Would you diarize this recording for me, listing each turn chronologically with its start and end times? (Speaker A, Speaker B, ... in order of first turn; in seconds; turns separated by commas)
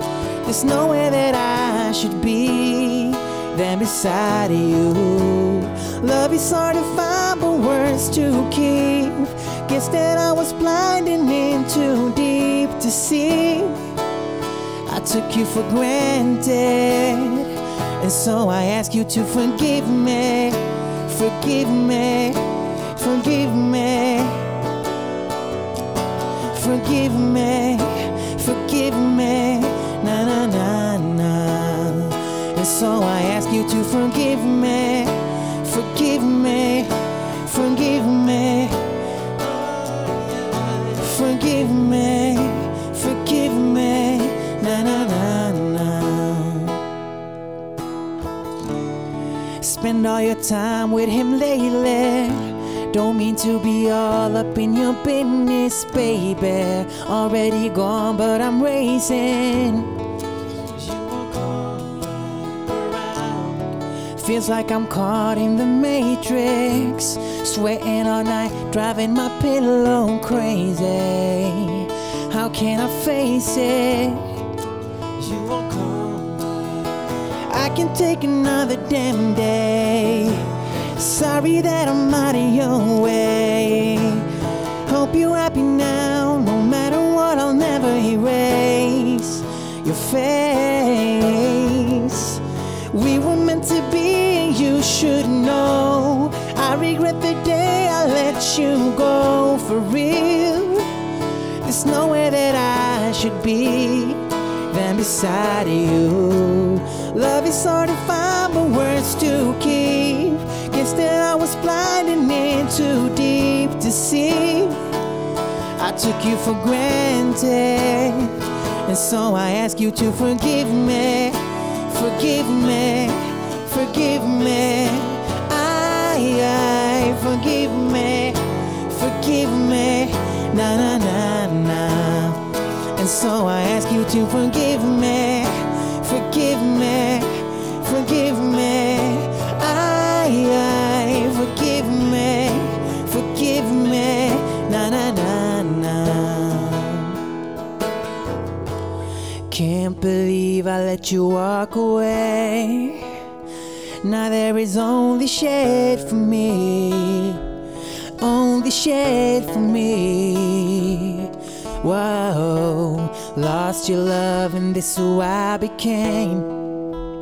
Speaker A: 0.4-13.8, Speaker A: 14.9-24.4, Speaker A: 26.5-38.8, Speaker A: 40.7-46.8, Speaker A: 49.6-59.9, Speaker A: 60.8-74.3, Speaker A: 75.2-76.8, Speaker A: 77.5-84.3, Speaker A: 84.8-100.9, Speaker A: 101.6-114.8, Speaker A: 115.8-132.4, Speaker A: 132.9-147.2, Speaker A: 149.5-153.1, Speaker A: 154.0-157.4, Speaker A: 158.2-166.6